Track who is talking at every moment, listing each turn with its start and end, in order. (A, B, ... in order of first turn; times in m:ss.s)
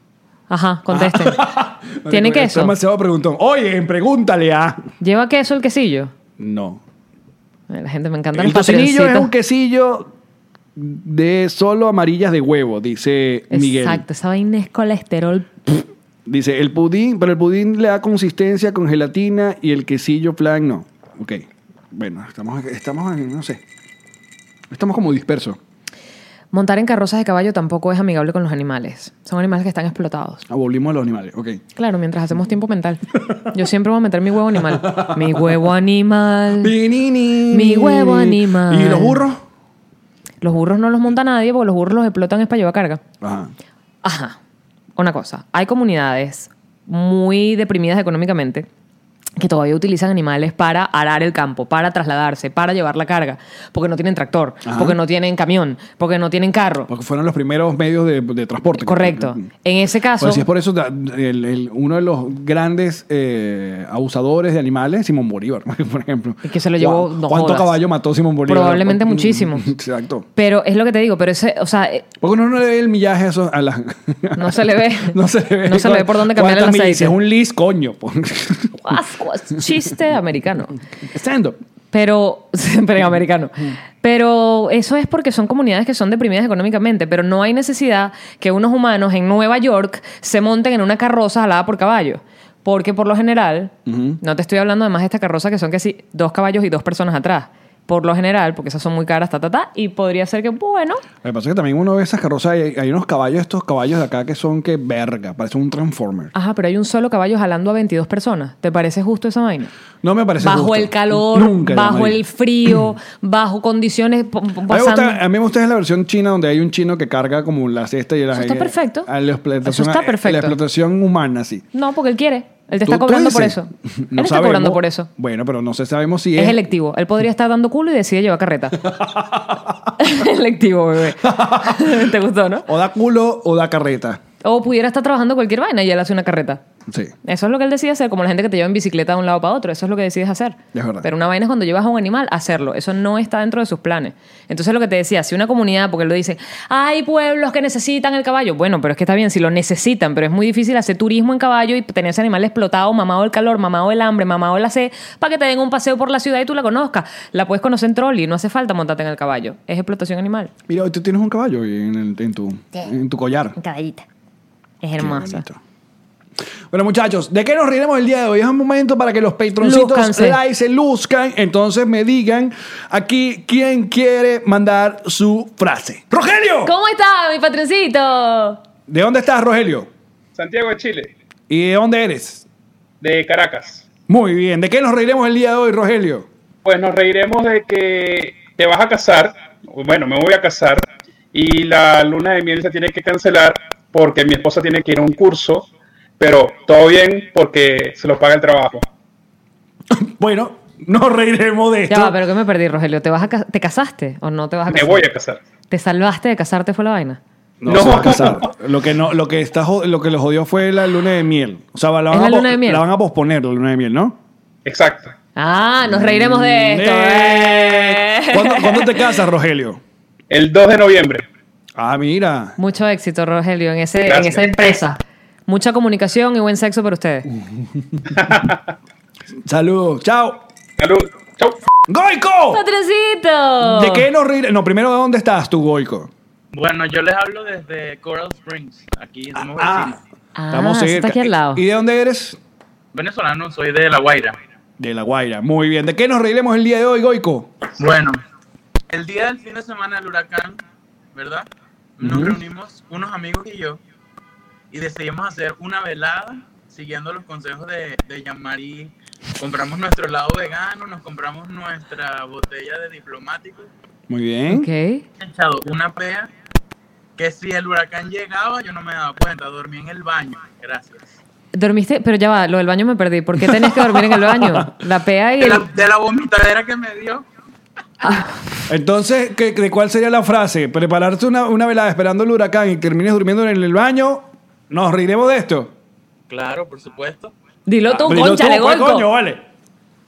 0:00.5-0:01.4 A
0:00.9-0:04.9 B
0:02.1-0:02.8 A
0:05.0-0:06.1 A
0:06.4-0:06.8 B
0:07.7-0:09.3 A
0:08.4-0:10.1 B
0:10.8-0:14.0 B
0:13.5-0:15.6 A
0:16.2-0:23.6 B
0:24.7-0:25.6 B
0:26.5-0:30.4 A
0:30.5-0:31.6 B
0:31.8-0:36.7 A
0:34.7-0:35.6 B
0:36.6-0:39.4 B
0:37.5-0:39.2 A
0:40.4-0:43.0 A
0:43.2-0:43.5 B
0:44.0-0:44.4 A
0:45.0-0:48.7 A
0:49.4-0:56.9 A
0:54.6-0:55.0 B
0:56.9-0:59.5 B
0:58.8-1:00.4 A
1:00.2-1:10.3 B
1:06.4-1:07.8 A
1:08.4-1:09.7 A
1:10.4-1:12.0 A
1:12.2-1:18.9 B
1:14.4-1:17.1 A
1:18.8-1:20.8 A
1:21.0-1:21.6 B
1:21.9-1:41.0 A
1:33.9-1:34.2 B
1:41.2-1:46.3 B
1:46.3-1:49.7 A
1:50.0-1:52.2 B
1:50.4-1:55.2 A
1:54.7-2:01.7 B
1:58.3-1:59.1 A
1:59.6-2:00.6 A
2:01.7-2:05.1 A
2:02.8-2:06.6 B
2:06.4-2:08.8 A
2:08.8-2:10.0 B
2:10.0-2:12.7 A
2:11.2-2:12.0 B
2:12.6-2:14.2 B
2:14.4-2:16.6 A
2:17.2-2:40.5 A
2:20.7-2:21.1 B
2:40.7-2:43.6 B
2:43.6-2:44.0 A
2:44.8-2:45.4 A
2:45.0-2:45.6 B
2:46.7-2:56.7 B
2:49.6-2:50.4 A
2:56.6-2:58.6 A
2:58.9-2:59.9 B
3:00.4-3:01.1 C
3:01.5-3:02.4 B
3:03.0-3:03.8 C
3:04.1-3:06.3 B
3:06.6-3:15.7 C
3:16.2-3:18.9 C
3:19.9-3:22.2 B
3:21.9-3:25.0 A
3:24.7-3:25.4 C
3:25.7-3:27.2 A
3:27.6-3:34.2 B
3:27.7-3:28.4 C
3:32.1-3:32.8 A
3:34.6-3:35.1 C
3:35.4-3:39.2 A
3:35.8-3:39.8 B
3:40.3-3:41.2 C
3:41.8-3:42.6 B
3:42.6-3:47.3 A
3:44.1-3:44.5 C
3:48.1-3:48.6 C
3:49.4-3:50.4 B
3:50.8-3:51.6 C
3:51.9-3:52.6 B
3:52.5-3:54.1 A
3:53.6-3:56.1 B
3:56.5-4:00.0 D
3:59.4-4:00.0 B
4:00.4-4:01.6 A
4:00.5-4:02.4 B
4:02.9-4:04.4 D
4:04.8-4:07.5 B
4:07.7-4:08.2 D
4:08.9-4:10.6 D
4:11.1-4:11.5 D
4:12.0-4:13.8 D
4:12.0-4:12.4 B
4:14.7-4:23.7 D
4:24.1-4:24.7 B
4:24.5-4:25.0 A
4:25.2-4:26.3 D
4:27.2-4:31.0 D
4:31.5-4:35.7 A
4:33.4-4:34.7 B
4:35.4-4:37.2 D
4:38.0-4:38.3 A
4:38.7-4:45.7 B
4:46.3-4:47.3 D
4:47.7-4:49.1 A
4:47.9-4:49.4 B